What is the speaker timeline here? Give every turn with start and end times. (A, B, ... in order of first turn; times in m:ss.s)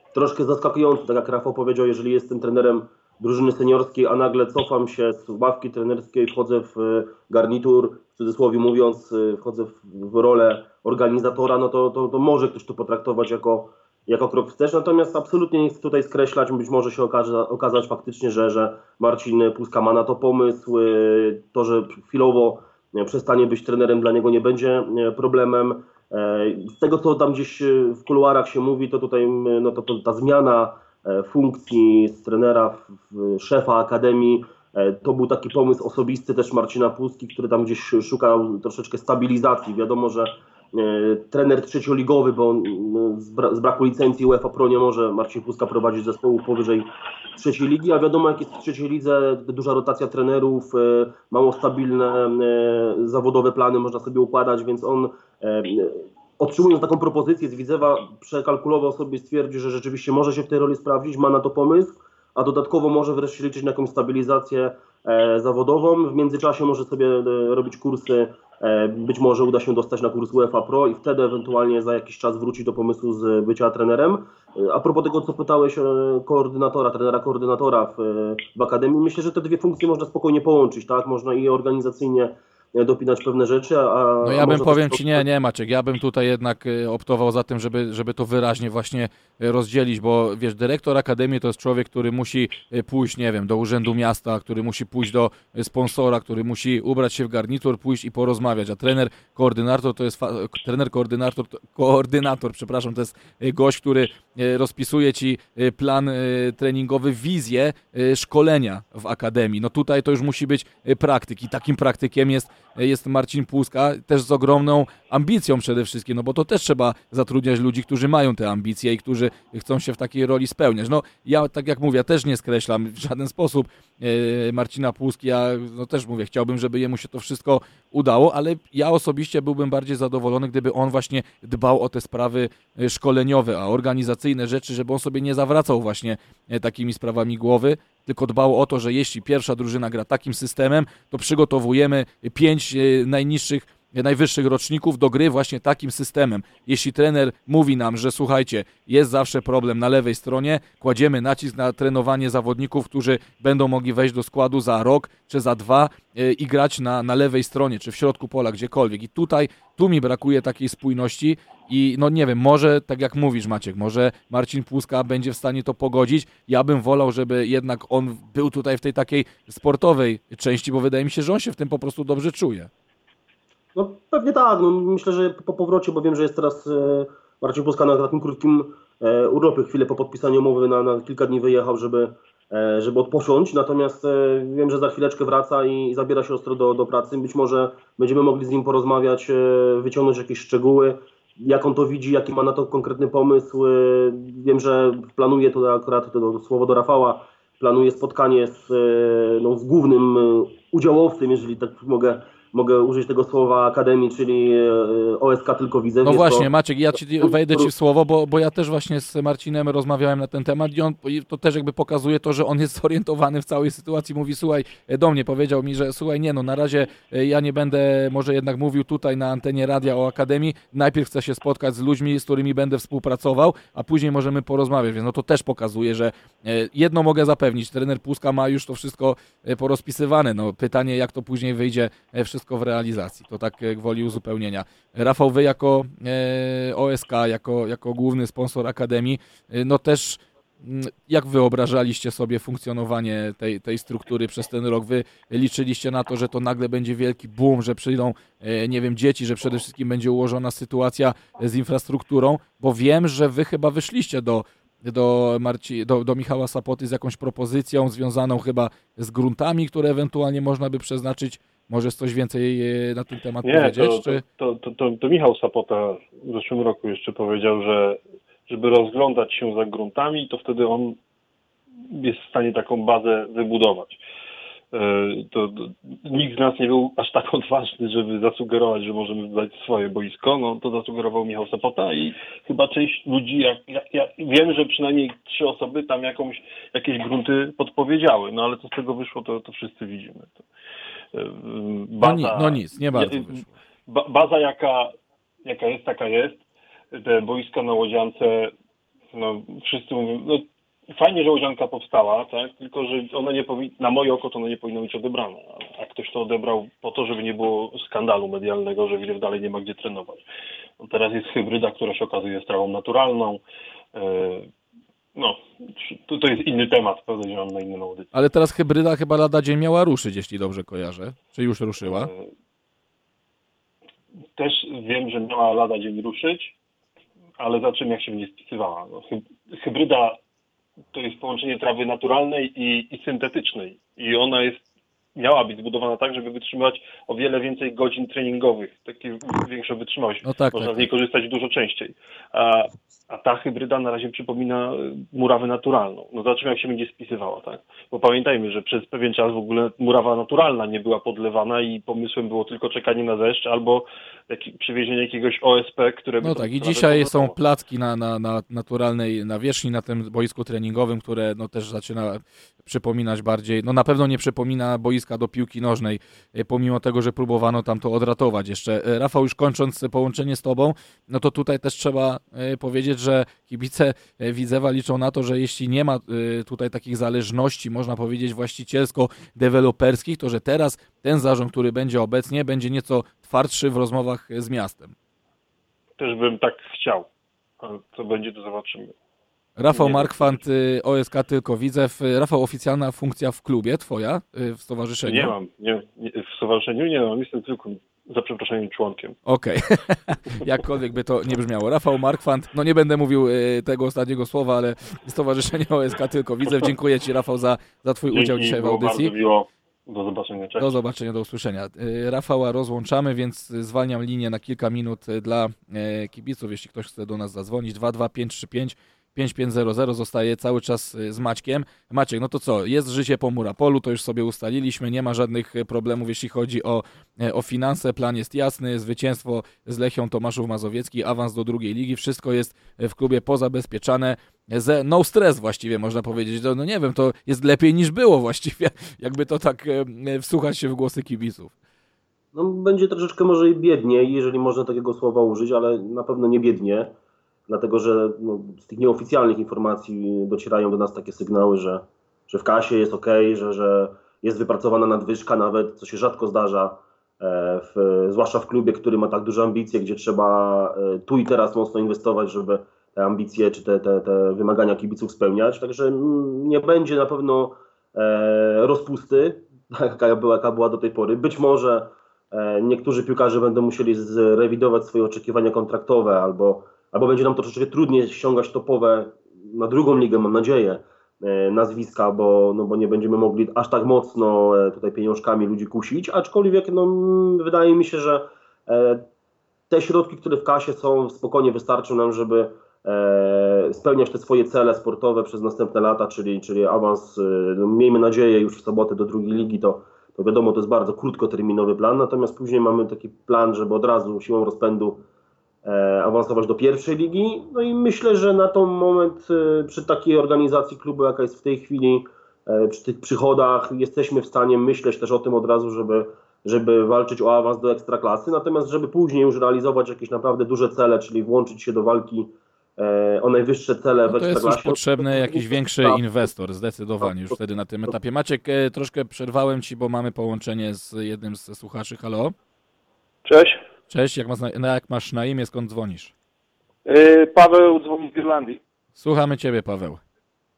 0:00.1-1:25.2 A
1:24.2-2:52.7 B
2:53.8-3:26.5 A
3:26.0-4:24.2 B
3:27.2-3:27.7 A
4:23.4-4:31.0 C
4:31.8-4:34.0 C
4:34.7-4:50.4 C
4:51.1-4:54.9 C
4:52.0-4:53.5 B
4:55.4-4:58.5 C
4:59.1-5:10.2 C
5:10.8-5:13.4 C
5:13.9-5:14.5 C
5:15.1-5:18.1 C
5:18.1-5:22.1 B
5:21.8-5:22.3 C
5:24.4-5:26.5 C
5:27.4-5:30.2 C
5:30.9-5:34.6 C
5:35.2-5:57.4 C
5:40.2-5:40.9 B
5:56.2-6:24.9 B
6:26.0-6:27.1 C
6:27.6-6:28.9 C
6:29.6-6:35.3 B
6:29.7-6:30.4 C
6:35.0-6:39.2 C
6:39.2-6:49.1 B
6:48.1-6:50.7 C
6:50.6-7:21.5 B
7:22.3-7:26.9 A
7:27.5-8:09.0 A
8:09.7-8:25.0 A
8:25.6-8:46.0 A
8:44.1-8:52.3 B
8:53.2-8:53.6 D
8:53.9-8:56.1 B
8:56.8-8:58.6 D
8:59.0-9:00.0 B